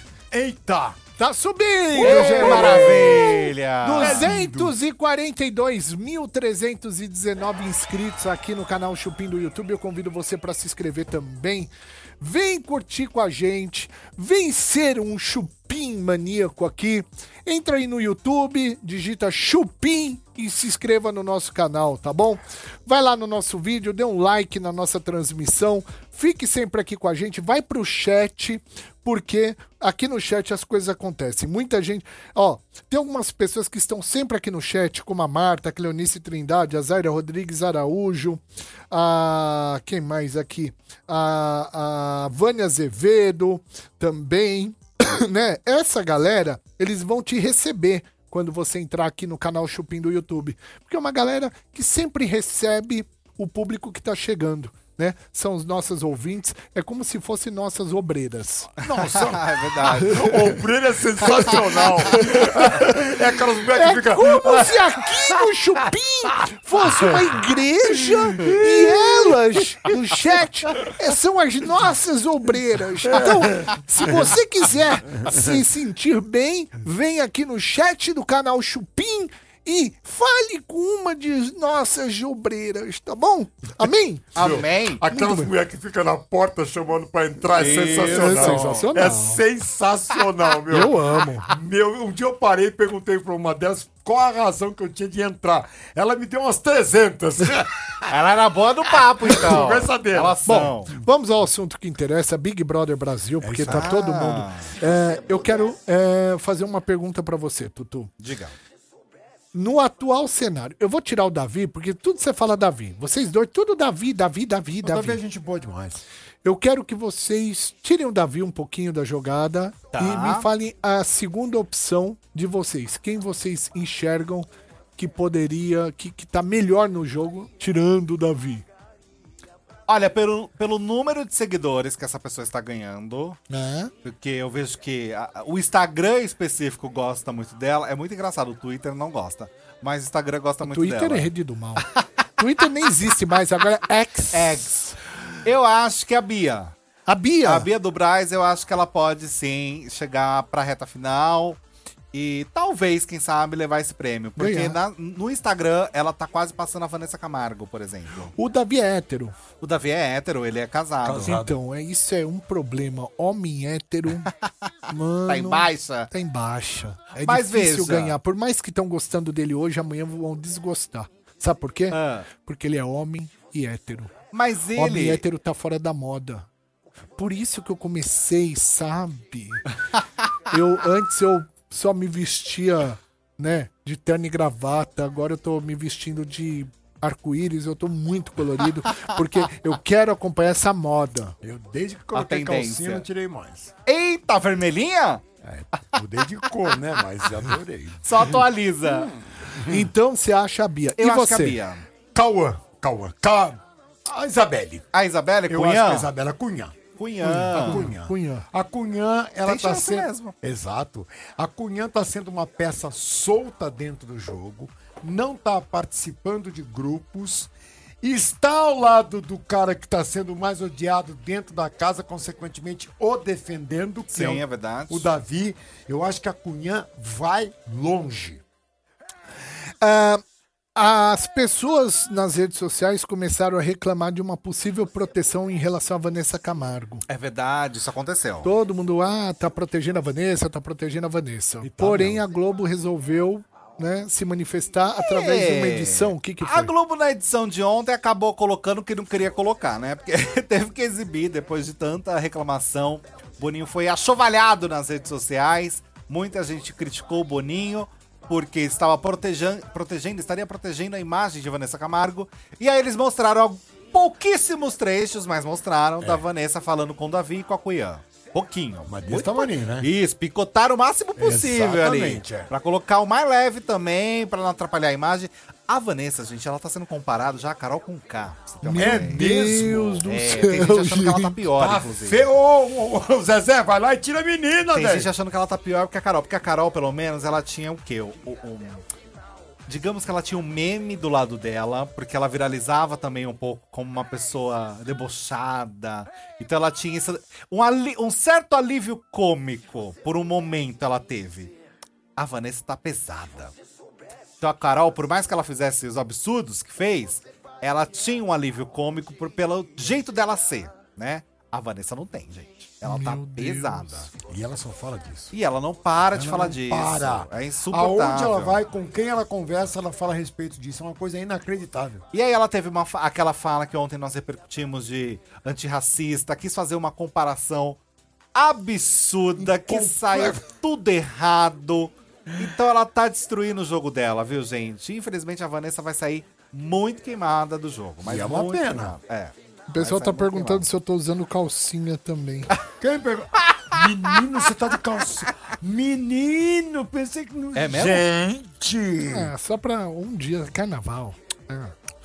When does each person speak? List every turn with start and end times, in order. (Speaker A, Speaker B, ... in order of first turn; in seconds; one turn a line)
Speaker A: 0.3-1.0
Speaker B: 1.2-58.7
Speaker A: 1.9-3.3
Speaker C: 2.0-4.3
Speaker A: 4.0-4.8
Speaker A: 58.8-65.0
Speaker C: 59.0-60.5
Speaker B: 60.0-60.3
Speaker B: 62.1-63.0
Speaker B: 63.7-84.3
Speaker A: 68.3-69.4
Speaker A: 73.0-74.3
Speaker A: 75.2-75.5
Speaker C: 84.3-85.0
Speaker A: 84.4-98.1
Speaker B: 85.1-85.5
Speaker C: 87.5-88.9
Speaker B: 88.0-89.4
Speaker B: 90.7-91.5
Speaker C: 98.0-100.9
Speaker A: 99.2-100.4
Speaker B: 100.5-108.1
Speaker A: 103.4-103.9
Speaker C: 103.7-104.7
Speaker A: 105.0-105.7
Speaker C: 108.2-108.5
Speaker B: 109.5-115.2
Speaker A: 114.8-116.0
Speaker B: 116.4-128.7
Speaker C: 119.9-120.5
Speaker C: 129.9-133.4
Speaker B: 133.5-133.9
Speaker C: 134.0-141.3
Speaker B: 140.6-141.8
Speaker B: 142.4-144.9
Speaker C: 144.3-144.9
Speaker C: 145.4-146.7
Speaker B: 147.1-147.7
Speaker C: 147.4-151.6
Speaker C: 152.1-158.3
Speaker B: 154.4-154.8
Speaker B: 158.3-159.3
Speaker C: 159.6-161.4
Speaker A: 161.0-161.5
Speaker B: 161.2-164.3
Speaker B: 164.9-174.1
Speaker C: 165.3-166.1
Speaker C: 167.2-168.2
Speaker C: 171.9-172.3
Speaker C: 174.3-175.2
Speaker B: 174.7-176.5
Speaker B: 177.2-179.6
Speaker B: 180.5-191.4
Speaker A: 191.4-193.7
Speaker C: 192.1-193.0
Speaker C: 193.8-195.2
Speaker A: 195.4-199.9
Speaker C: 198.0-199.1
Speaker B: 199.7-201.6
Speaker C: 201.0-201.9
Speaker A: 202.1-204.8
Speaker C: 204.9-206.1
Speaker A: 205.5-206.8
Speaker C: 207.0-207.8
Speaker B: 207.2-208.4
Speaker A: 207.5-217.5
Speaker C: 209.4-210.3
Speaker A: 218.0-228.4
Speaker C: 224.1-225.1
Speaker B: 229.8-230.2
Speaker B: 230.7-237.0
Speaker C: 237.1-238.5
Speaker B: 238.4-246.7
Speaker A: 241.6-242.2
Speaker C: 245.0-279.2
Speaker A: 268.9-269.9
Speaker A: 271.2-272.5
Speaker B: 278.6-281.4
Speaker A: 278.8-280.0
Speaker C: 280.0-282.2
Speaker A: 281.6-285.1
Speaker C: 284.7-288.8
Speaker C: 289.7-301.5
Speaker C: 302.2-303.5
Speaker C: 304.4-314.1
Speaker B: 312.8-314.1
Speaker A: 314.2-315.3
Speaker C: 315.3-318.6
Speaker A: 316.1-322.0
Speaker C: 322.1-327.8
Speaker C: 328.3-340.6
Speaker A: 329.4-330.4
Speaker A: 338.0-339.0
Speaker B: 339.7-342.5
Speaker A: 342.8-349.3
Speaker C: 343.4-343.8
Speaker C: 347.5-348.1
Speaker B: 349.1-351.7